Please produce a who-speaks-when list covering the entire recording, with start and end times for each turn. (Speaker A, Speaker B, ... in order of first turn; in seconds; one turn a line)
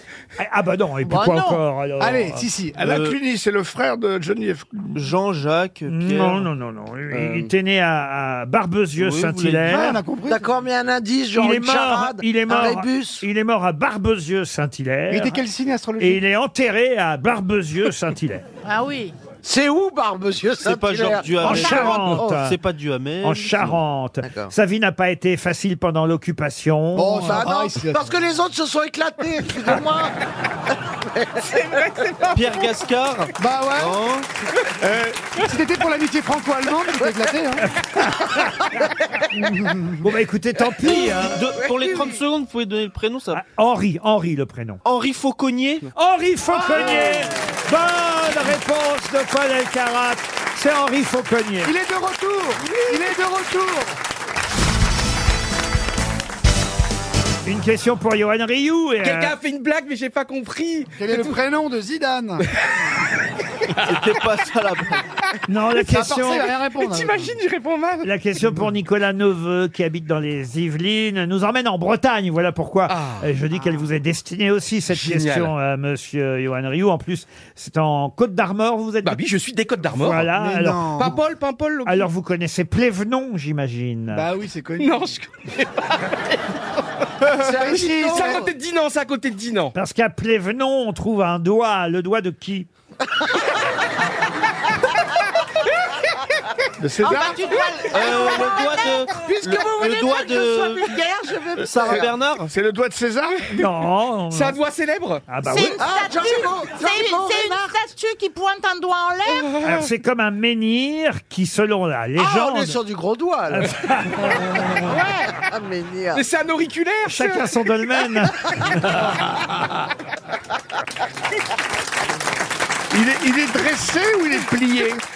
Speaker A: 0.4-2.5
Speaker B: 1.1-1.6
Speaker C: 2.0-2.8
Speaker D: 2.8-5.0
Speaker E: 2.8-3.2
Speaker E: 4.9-6.5
Speaker A: 5.9-10.0
Speaker F: 7.1-7.5
Speaker E: 9.0-9.9
Speaker C: 9.7-10.5
Speaker G: 10.3-13.2
Speaker A: 11.4-15.4
Speaker C: 15.1-16.2
Speaker A: 16.0-18.4
Speaker B: 18.6-19.1
Speaker G: 19.4-22.2
Speaker E: 20.6-23.8
Speaker A: 21.4-22.6
Speaker A: 23.2-27.4
Speaker G: 24.2-24.5
Speaker C: 26.9-28.1
Speaker G: 27.2-30.1
Speaker G: 31.1-32.3
Speaker F: 31.5-32.4
Speaker E: 32.3-34.3
Speaker C: 33.4-34.0
Speaker D: 34.8-35.3
Speaker C: 35.4-37.7
Speaker A: 37.9-38.5
Speaker G: 38.3-39.3
Speaker C: 39.4-40.0
Speaker A: 40.0-41.4
Speaker G: 40.8-42.2
Speaker E: 40.9-43.4
Speaker A: 43.3-44.8
Speaker E: 44.9-45.9
Speaker A: 46.0-51.7
Speaker C: 46.5-47.3
Speaker C: 51.6-54.0
Speaker A: 57.5-59.4
Speaker F: 59.0-61.4
Speaker C: 61.0-62.5
Speaker E: 63.8-65.0
Speaker A: 65.5-66.5
Speaker C: 65.7-67.3
Speaker F: 66.8-68.1
Speaker A: 68.0-79.2
Speaker F: 72.9-73.3
Speaker F: 74.9-75.5
Speaker F: 79.0-80.3
Speaker A: 79.9-81.1
Speaker C: 80.3-81.2
Speaker F: 81.0-82.1
Speaker A: 81.8-84.3
Speaker C: 84.1-85.1
Speaker F: 84.8-85.9
Speaker C: 87.3-88.5
Speaker G: 87.3-88.5
Speaker F: 87.6-89.8
Speaker A: 89.8-92.7
Speaker D: 96.8-97.4
Speaker B: 97.0-99.1
Speaker G: 97.0-102.1
Speaker E: 97.9-101.0
Speaker E: 101.6-102.5
Speaker D: 101.7-103.4
Speaker A: 103.5-104.6
Speaker F: 104.3-105.3
Speaker A: 105.3-105.8
Speaker B: 105.4-109.5
Speaker G: 105.8-107.8
Speaker F: 109.4-109.9
Speaker A: 109.6-112.8
Speaker G: 112.2-116.2
Speaker A: 113.5-114.5
Speaker F: 116.1-117.4
Speaker A: 117.1-118.9
Speaker D: 122.9-125.0